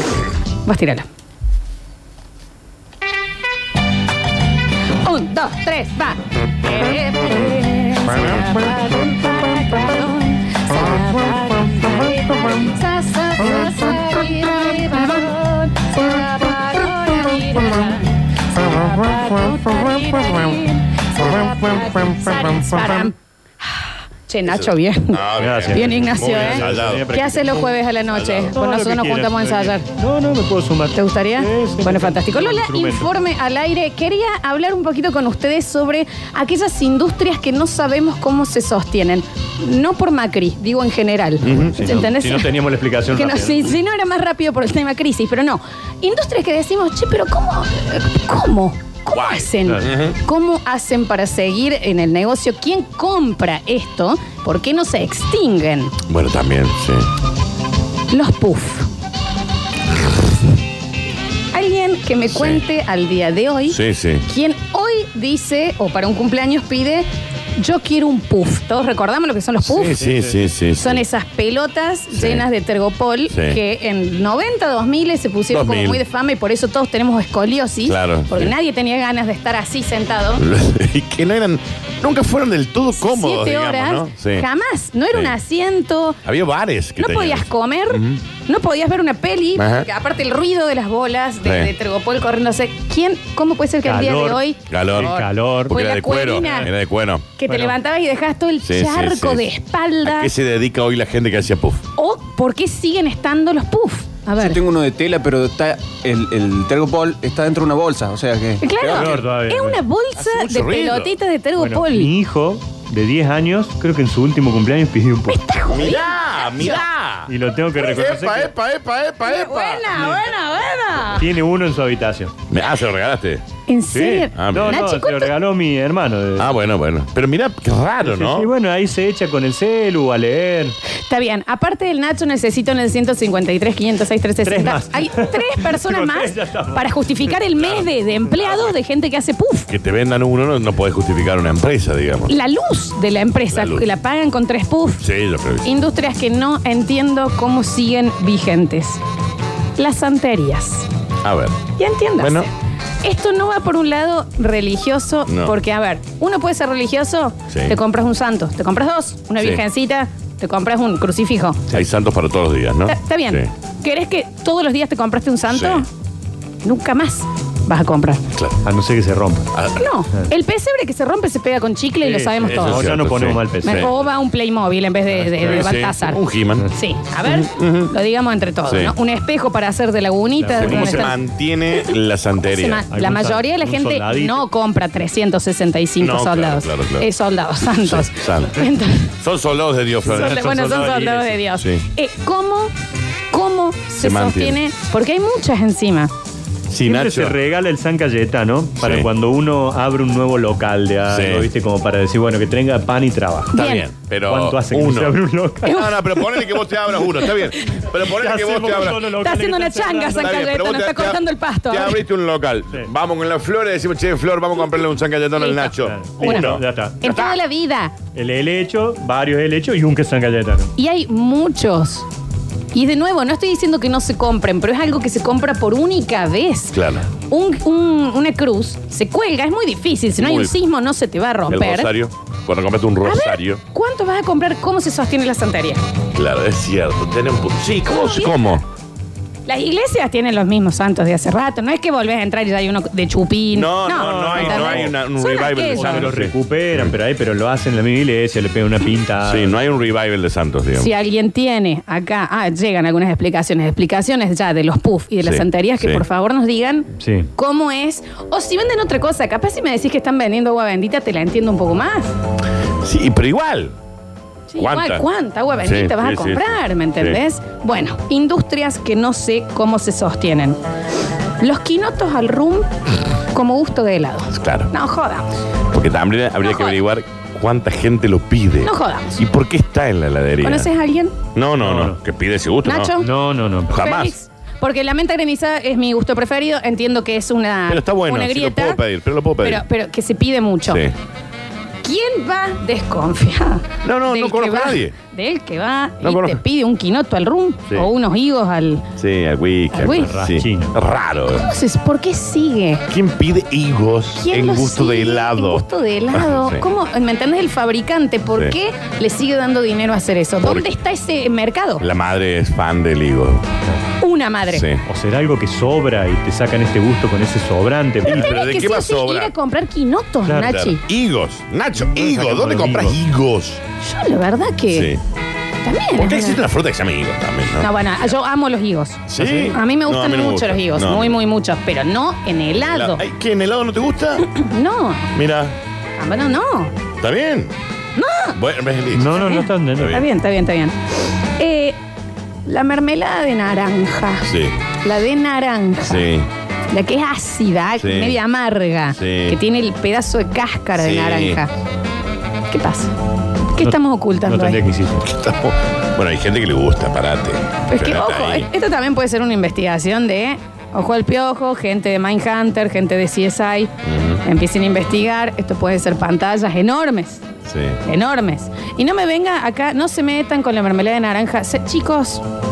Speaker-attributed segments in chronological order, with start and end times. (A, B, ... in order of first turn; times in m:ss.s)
0:00.6-0:01.1 A
0:05.0-0:29.9 A
0:24.5-0:27.1 B
0:25.4-0:27.8 C
0:28.1-0:28.6 B
0:28.5-0:33.1 C
0:30.9-0:42.5 A
0:41.4-0:41.8 B
0:41.6-0:43.8 C
0:43.1-0:56.0 A
0:49.1-0:50.2 B
0:56.1-0:57.0 B
0:58.1-0:58.9 A
1:01.5-1:10.0 A
1:02.3-1:02.6 B
1:03.7-1:04.3 B
1:09.6-1:11.0 B
1:10.0-1:10.4 C
1:10.8-1:20.4 A
1:12.1-1:12.5 B
1:13.3-1:13.6 B
1:15.5-1:16.0 B
1:17.9-1:18.5 B
1:20.4-1:24.5 B
1:23.0-1:26.2 A
1:26.2-1:28.2 B
1:27.0-1:36.7 A
1:29.6-1:29.9 B
1:31.4-1:31.7 B
1:33.8-1:34.4 C
1:34.7-1:37.3 B
1:34.9-1:35.8 C
1:36.4-1:36.7 C
1:37.4-1:40.3 A
1:37.5-1:37.8 C
1:38.6-1:39.5 B
1:40.0-1:41.8 B
1:42.0-1:44.6 A
1:44.4-1:49.2 D
1:48.6-1:52.1 A
1:48.8-1:49.8 C
1:50.2-1:51.2 B
1:51.6-1:55.4 C
1:55.3-1:56.8 A
1:55.7-1:59.9 B
1:57.3-1:58.5 C
1:59.2-2:01.3 A
1:59.9-2:00.2 C
2:01.2-2:02.3 C
2:02.5-2:03.4 B
2:03.7-2:05.3 A
2:03.9-2:06.5 C
2:04.3-2:04.8 B
2:06.4-2:08.5 B
2:08.0-2:10.8 C
2:11.1-2:19.7 A
2:14.4-2:18.0 C
2:19.7-2:22.3 B
2:22.3-2:25.0 A
2:23.5-2:23.9 B
2:25.0-2:25.7 B
2:25.6-2:29.0 A
2:29.8-2:30.9 A
2:31.2-2:31.6 B
2:31.8-2:32.5 A
2:32.2-2:32.5 B
2:33.0-2:41.7 A
2:35.3-2:35.6 B
2:37.5-2:37.8 B
2:41.7-2:43.5 B
2:42.9-2:45.9 A
2:45.5-2:45.8 B
2:46.6-2:48.2 A
2:48.3-2:48.6 B
2:48.6-2:49.5 C
2:49.5-2:49.9 B
2:49.8-2:52.9 A
2:52.0-2:53.9 C
2:52.4-2:53.9 B
2:53.6-3:01.2 A
2:55.2-2:55.6 C
2:55.4-2:56.7 B
2:57.2-2:57.9 B
2:58.7-2:58.9 B
3:00.4-3:01.2 C
3:00.5-3:02.8 B
3:02.4-3:09.1 A
3:02.9-3:04.5 C
3:06.0-3:07.1 B
3:07.8-3:08.6 B
3:09.2-3:10.4 B
3:10.1-3:11.4 C
3:10.1-3:12.7 A
3:11.6-3:11.8 B
3:13.3-3:16.1 A
3:14.0-3:14.6 B
3:16.7-3:17.4 B
3:16.8-3:23.6 C
3:18.8-3:19.1 B
3:21.1-3:21.5 B
3:23.5-3:23.9 A
3:23.5-3:29.1 B
3:24.3-3:25.8 C
3:25.6-3:26.7 A
3:28.1-3:30.4 C
3:29.2-3:32.0 A
3:30.1-3:37.4 B
3:35.4-3:38.0 A
3:35.8-3:37.0 C
3:38.2-3:40.7 C
3:40.8-3:42.1 A
3:42.7-3:51.9 A
3:46.7-3:47.1 B
3:50.2-3:50.5 B
3:51.5-3:53.6 B
3:53.0-3:55.8 A
3:56.1-3:58.6 B
3:57.9-3:58.6 A
3:59.5-4:06.1 A
4:03.5-4:07.0 B
4:03.9-4:05.0 C
4:05.7-4:09.6 C
4:09.2-4:10.9 B
4:10.8-4:22.1 A
4:15.2-4:16.0 B
4:17.0-4:17.3 C
4:22.8-4:23.8 B
4:24.5-4:30.6 A
4:24.6-4:25.1 B
4:25.6-4:27.2 B
4:31.4-4:35.3 A
4:34.3-4:34.7 B
4:35.7-4:40.7 B
4:36.4-4:36.8 A
4:38.6-4:39.2 A
4:40.4-4:41.2 A
4:41.3-4:43.0 B
4:41.6-4:42.0 C
4:42.6-4:43.1 A
4:43.0-4:43.8 C
4:43.7-4:44.1 B
4:43.7-4:48.8 A
4:47.7-4:49.6 B
4:49.4-4:50.9 A
4:50.7-4:50.9 B
4:51.8-4:58.9 A
4:53.8-4:55.0 B
4:56.0-4:56.4 B
4:59.0-5:01.5 B
4:59.7-5:00.1 A
4:59.8-5:00.7 C
5:01.3-5:02.8 A
5:02.9-5:06.7 B
5:04.2-5:11.8 A
5:10.4-5:10.7 B
5:11.8-5:13.4 B
5:14.0-5:14.7 A
5:14.5-5:14.8 B
5:14.8-5:18.3 C
5:18.1-5:19.3 B
5:18.1-5:20.8 A
5:20.3-5:20.6 C
5:20.4-5:23.6 B
5:21.8-5:23.0 C
5:23.8-5:24.9 A
5:24.7-5:25.0 B
5:25.6-5:26.4 A
5:26.0-5:27.9 B
5:27.6-5:33.0 A
5:29.1-5:31.2 B
5:32.6-5:34.4 B
5:34.3-5:35.1 A
5:35.1-5:35.6 B
5:36.0-5:36.8 A
5:37.0-5:37.5 B
5:38.0-5:38.4 A
5:38.4-5:39.2 B
5:39.0-5:40.0 C
5:39.2-5:41.8 A
5:39.8-5:40.1 B
5:42.5-5:46.1 A
5:44.3-5:44.6 B
5:45.8-5:46.3 B
5:46.7-5:51.5 A
5:47.8-5:48.2 B
5:49.0-5:49.4 B
5:50.8-5:51.4 B
5:52.5-5:52.9 A
5:53.5-5:54.7 A
5:53.6-5:55.1 C
5:55.0-5:58.5 B
5:57.7-6:03.7 A
6:03.8-6:04.2 B
6:04.2-6:07.2 A
6:07.4-6:07.8 B
6:07.8-6:12.2 A